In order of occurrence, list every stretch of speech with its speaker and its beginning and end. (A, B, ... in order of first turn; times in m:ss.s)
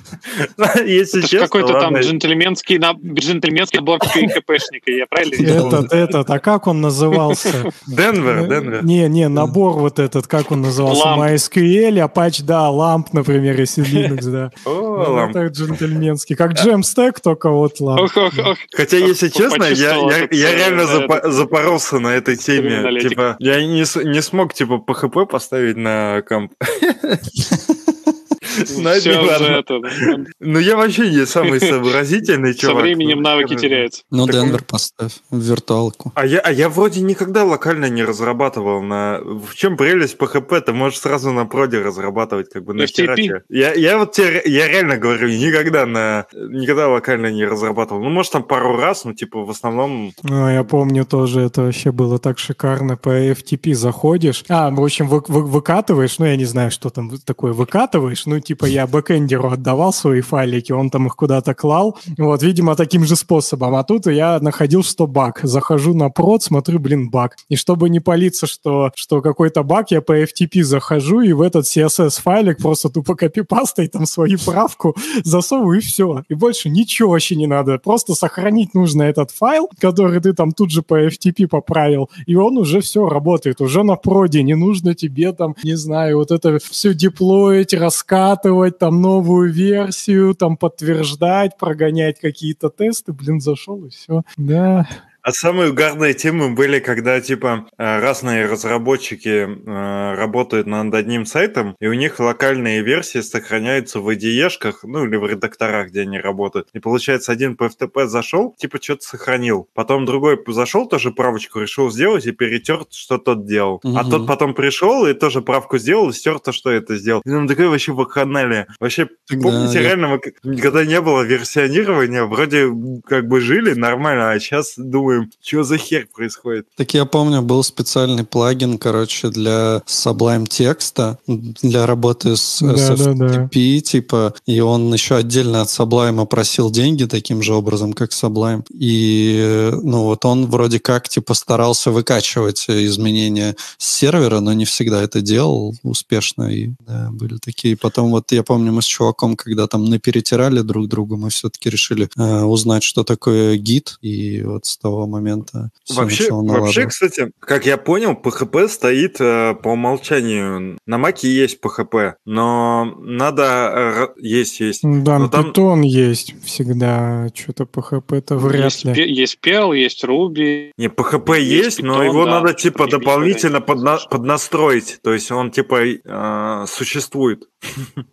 0:00.3-0:02.1 A
0:01.2-0:05.8 B
0:05.4-0:05.9 C
0:05.4-0:07.7 D
0:07.9-0:08.9 A
0:08.3-0:18.1 D
0:10.9-0:11.3 B
0:13.9-0:14.1 B
0:14.6-0:15.4 A
0:18.0-0:21.5 B
0:18.7-0:27.2 A
0:22.4-0:23.2 B
0:27.4-0:28.1 C
0:28.5-0:34.6 A
0:28.7-0:30.2 B
0:31.4-0:31.8 B
0:32.6-0:34.0 B
0:34.1-0:36.1 C
0:36.1-0:50.1 A
0:42.8-0:43.3 B
0:50.2-1:34.9 D
1:35.2-2:06.6 A
1:53.8-1:54.3 C
1:59.3-1:59.9 C
2:06.8-2:36.9 C
2:12.6-2:13.5 D
2:35.9-2:45.5 A
2:44.8-2:49.0 D
2:48.4-2:50.7 B
2:50.8-2:58.0 A
2:51.2-2:54.0 B